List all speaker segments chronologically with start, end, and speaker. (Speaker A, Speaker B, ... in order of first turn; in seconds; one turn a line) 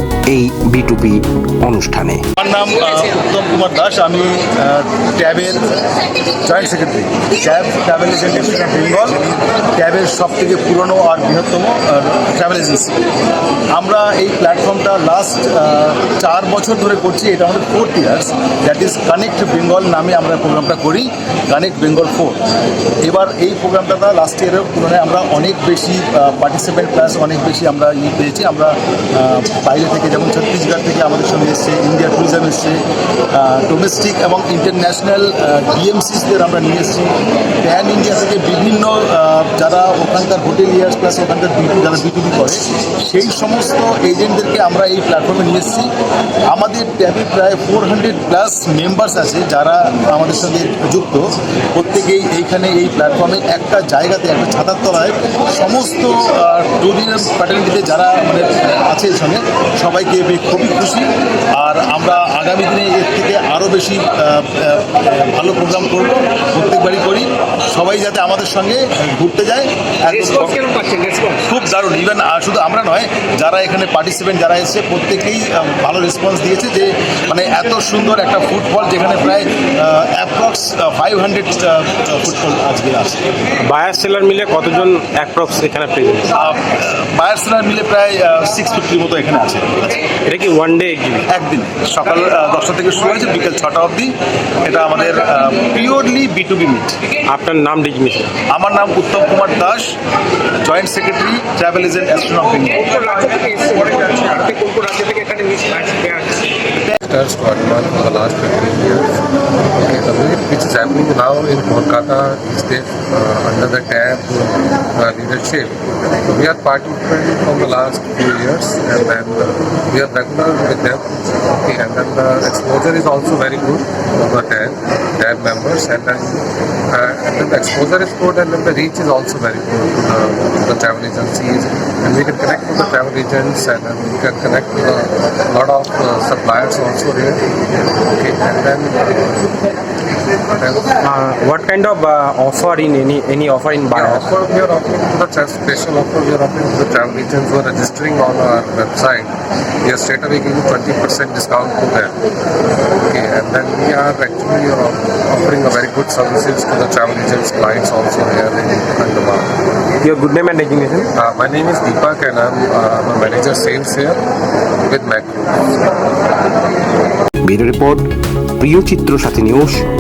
Speaker A: 0.3-2.2
Speaker B: 2.4-5.6
Speaker B: 6.5-13.0
Speaker B: 13.7-22.4
Speaker B: 23.0-32.8
Speaker B: 33.3-45.9
Speaker B: 46.5-70.6
Speaker C: 70.3-71.4
Speaker B: 71.4-83.2
Speaker C: 83.6-86.3
Speaker B: 86.3-90.1
Speaker C: 90.2-91.2
Speaker B: 91.3-94.1
Speaker B: 94.6-97.0
Speaker C: 97.3-98.3
Speaker B: 98.5-100.0
Speaker B: 100.6-102.9
Speaker C: 102.8-106.5
Speaker D: 107.0-137.4
Speaker D: 138.1-139.7
Speaker D: 140.5-141.0
Speaker C: 141.0-144.2
Speaker D: 143.9-149.3
Speaker D: 149.8-152.2
Speaker D: 153.0-159.5
Speaker C: 160.0-161.1
Speaker D: 161.1-164.2
Speaker D: 164.8-165.8
Speaker A: 167.4-168.1
Speaker A: 168.6-169.9